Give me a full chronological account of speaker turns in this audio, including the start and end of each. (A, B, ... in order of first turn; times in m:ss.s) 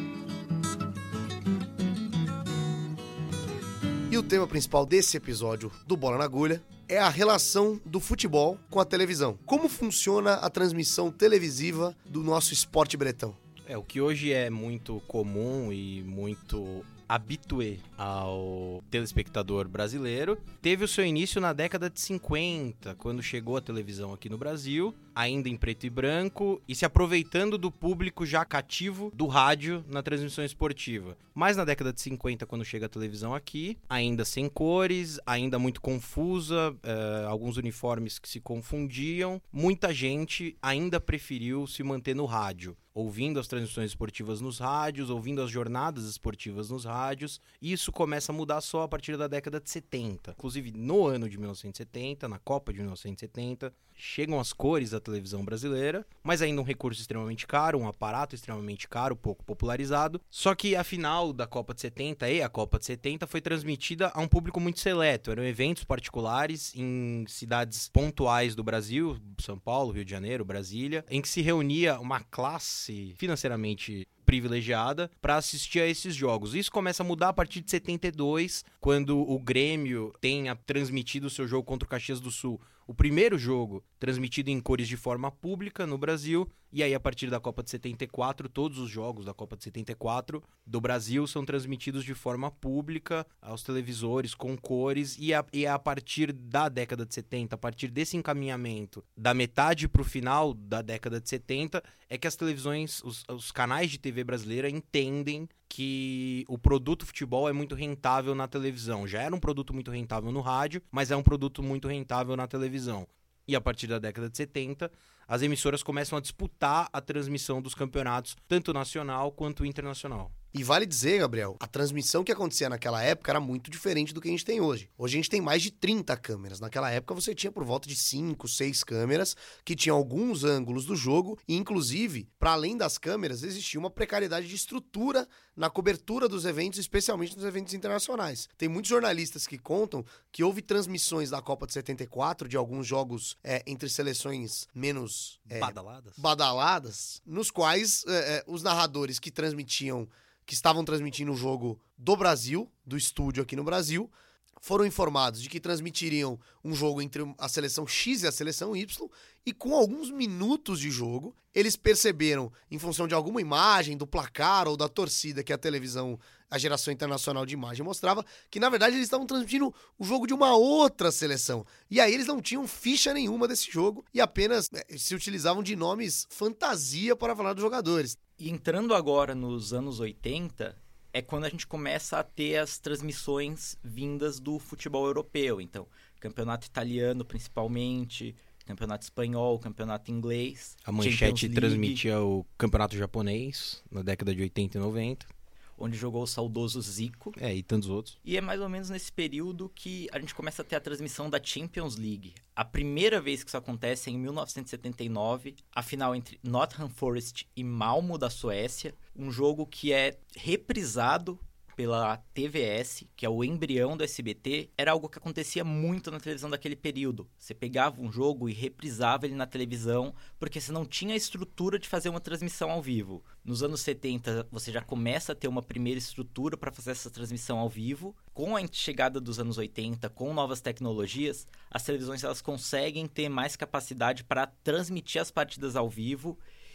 0:04.1-0:13.4 A
0:13.6-2:00.3 B
2:00.5-2:58.2 A
2:25.5-2:26.2 B
2:58.4-3:12.0 C
3:10.8-3:15.3 B
3:15.8-3:17.4 C
3:17.4-3:18.2 B
3:18.2-3:56.4 C